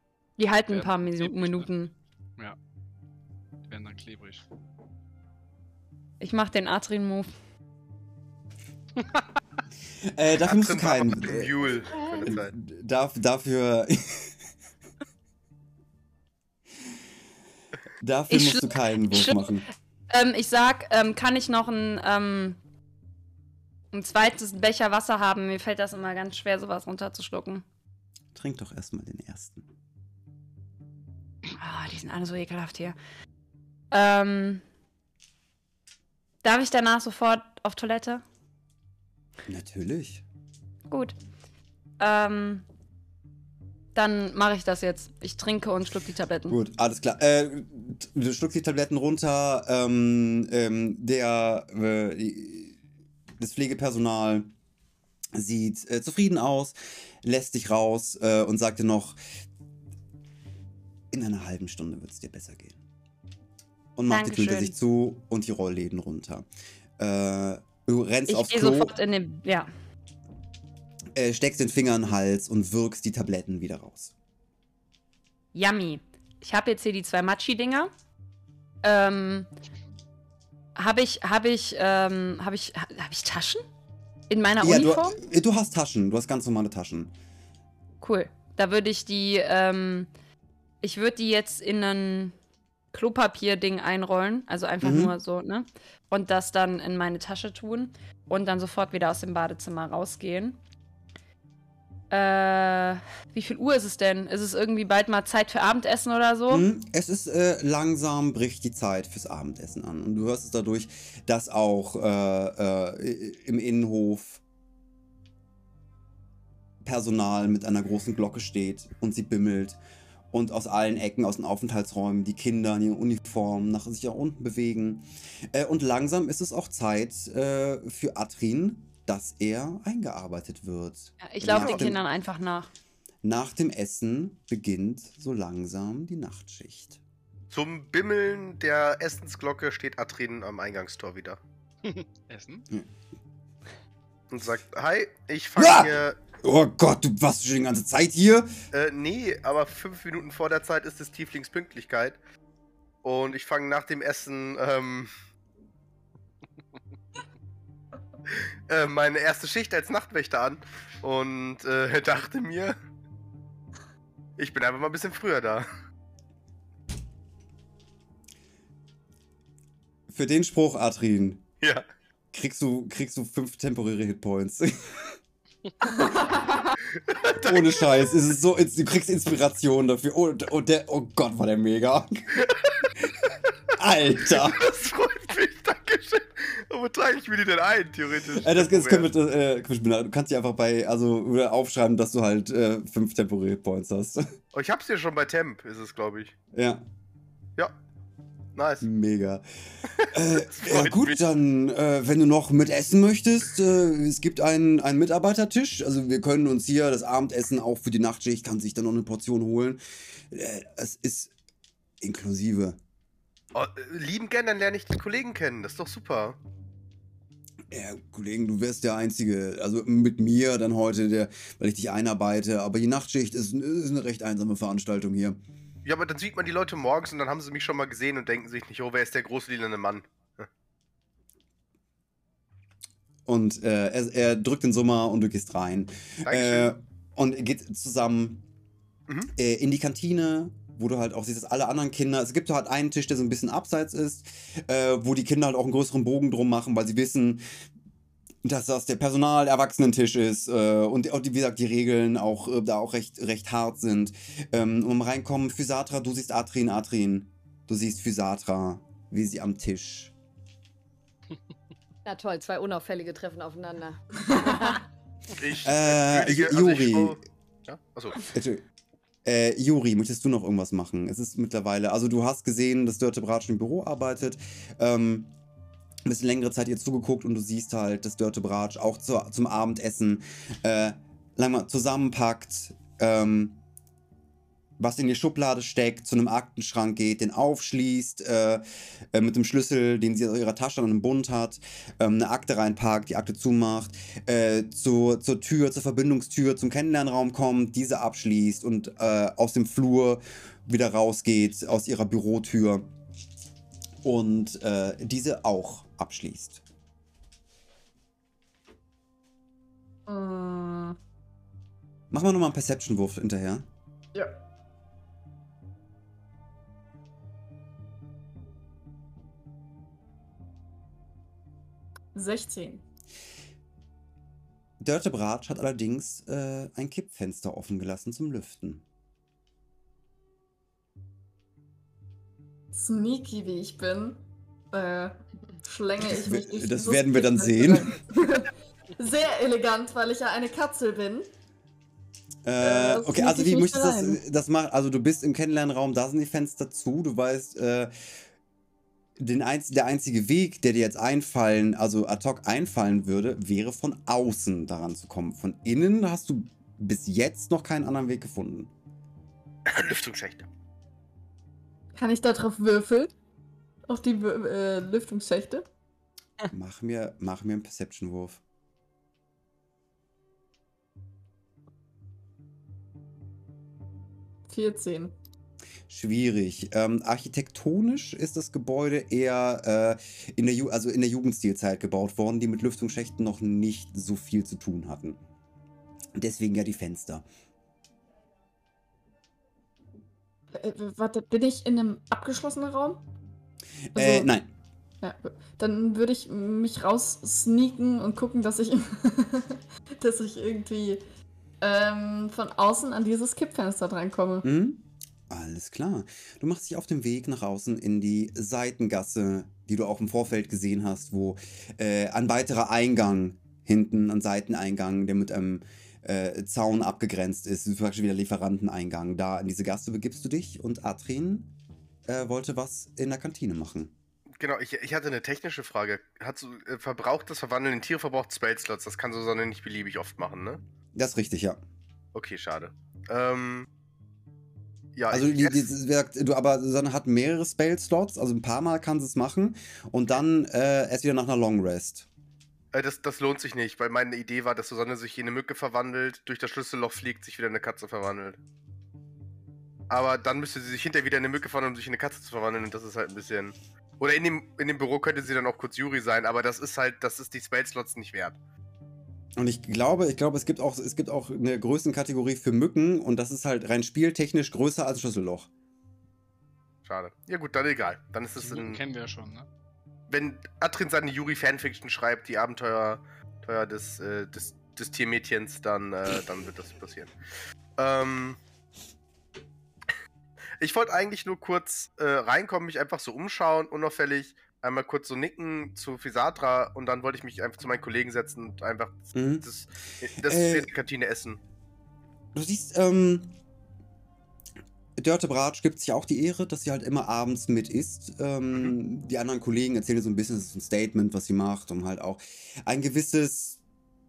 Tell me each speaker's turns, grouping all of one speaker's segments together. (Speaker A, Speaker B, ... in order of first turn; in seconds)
Speaker A: 0.4-1.9, 6.2-7.3, 18.3-19.5, 20.1-22.6, 23.9-27.6, 31.6-33.0, 33.9-34.6, 36.4-38.2, 40.9-41.1, 42.0-42.6, 43.9-46.5, 64.1-64.7, 68.3-69.7, 75.5-77.9, 78.8-79.5, 80.8-83.6, 84.3-85.2, 88.0-90.1, 90.8-92.3, 92.9-100.6, 102.1-106.7, 131.2-132.7
Speaker B: 0.7-1.7, 3.6-4.4, 141.8-142.7, 468.4-469.5
Speaker C: 10.0-14.3, 18.0-19.6, 28.3-29.6, 39.5-40.2, 46.5-52.8, 53.4-54.5, 55.3-59.2, 61.1-62.8, 64.0-66.5, 67.0-68.9, 71.1-74.1, 84.6-87.1, 94.8-95.1, 106.5-114.4, 116.8-119.8, 120.3-132.0, 133.2-137.0, 145.6-148.5, 170.1-171.5, 172.3-175.1, 177.3-182.5, 183.7-184.7, 188.3-194.2, 196.5-196.8, 198.8-199.4, 200.1-211.3, 212.0-212.8, 217.7-225.4, 233.2-238.4, 239.3-247.4, 248.4-260.1, 265.6-267.2, 268.3-268.6, 269.2-275.3, 276.1-283.6, 284.8-302.9, 304.0-306.6, 312.1-313.6, 324.8-328.8, 336.0-338.0, 342.4-347.9, 349.2-358.7, 366.5-368.4, 375.9-385.2, 386.1-387.2, 393.9-394.5, 404.4-421.5, 422.1-423.9, 430.9-431.6, 435.1-442.1, 459.4-465.5, 489.1-489.4, 490.2-490.7, 492.3-493.3, 495.0-503.6
Speaker D: 10.4-12.5, 137.5-141.4, 144.3-146.2, 148.7-152.2, 153.0-155.1, 158.3-162.8, 164.4-165.7, 176.8-178.1, 182.4-182.9, 184.4-189.1, 194.5-196.3, 198.5-198.8, 199.9-201.2, 213.5-216.4, 225.8-230.5, 236.2-236.7, 265.3-268.3, 359.7-360.5, 424.4-430.6, 432.1-433.7, 434.9-435.7, 442.7-448.4, 449.9-458.4, 466.8-468.8, 470.1-477.1, 477.8-478.4, 480.6-491.4
Speaker E: 11.9-12.3, 262.0-264.8
Speaker F: 310.1-311.0, 322.1-322.8, 332.7-334.2, 334.7-341.3, 342.6-344.2, 361.9-363.1, 363.9-365.6, 374.5-375.1, 390.5-393.0, 393.9-394.3, 395.0-401.0, 401.6-404.5